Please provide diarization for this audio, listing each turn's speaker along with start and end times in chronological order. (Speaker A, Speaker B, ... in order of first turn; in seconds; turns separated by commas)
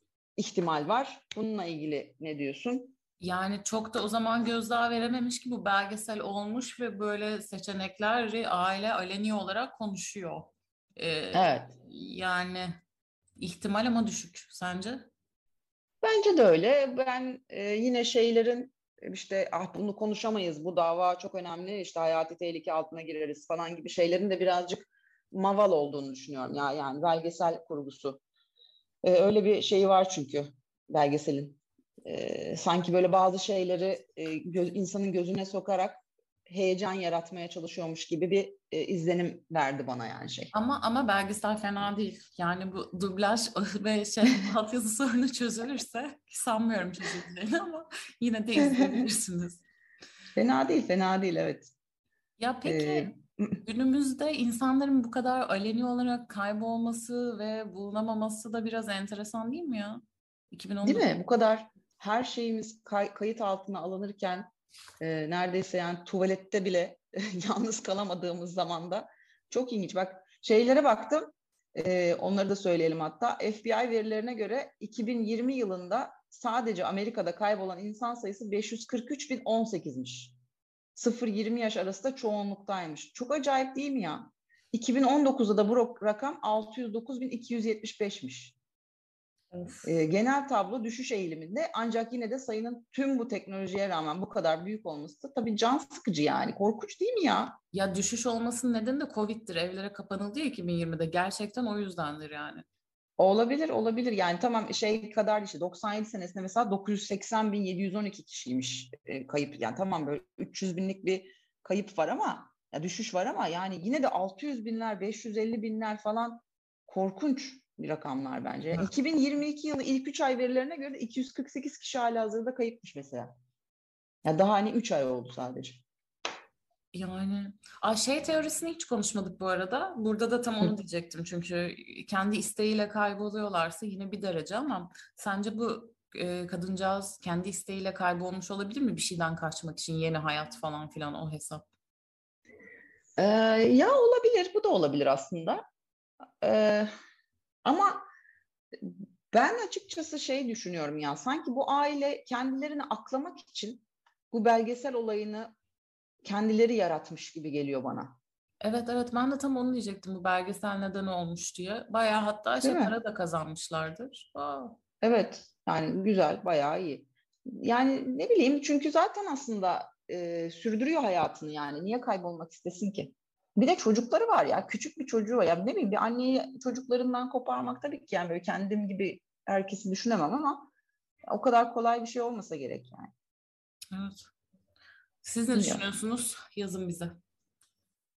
Speaker A: 0.4-2.9, Speaker B: 3.2-12.8, Speaker A: 11.3-11.7, Speaker B: 13.4-15.1, Speaker A: 16.0-28.2, Speaker A: 29.0-40.5, Speaker B: 40.5-49.6, Speaker A: 48.7-49.0, Speaker A: 50.4-51.7, Speaker B: 52.4-53.1, Speaker A: 52.6-53.6, Speaker B: 53.6-61.1, Speaker A: 60.8-64.5, Speaker A: 65.0-80.3, Speaker A: 80.9-88.5, Speaker B: 89.5-89.9, Speaker A: 89.8-97.6, Speaker B: 97.7-102.6, Speaker A: 103.2-123.3, Speaker A: 124.2-125.8, Speaker B: 126.9-141.7, Speaker A: 143.2-145.6, Speaker A: 146.4-146.9, Speaker A: 147.6-148.0, Speaker A: 148.8-155.5, Speaker A: 156.2-158.2, Speaker B: 158.6-164.8, Speaker A: 162.6-162.9, Speaker A: 165.0-180.7, Speaker A: 181.3-183.1, Speaker B: 183.9-184.3, Speaker B: 185.2-187.2, Speaker A: 185.5-185.8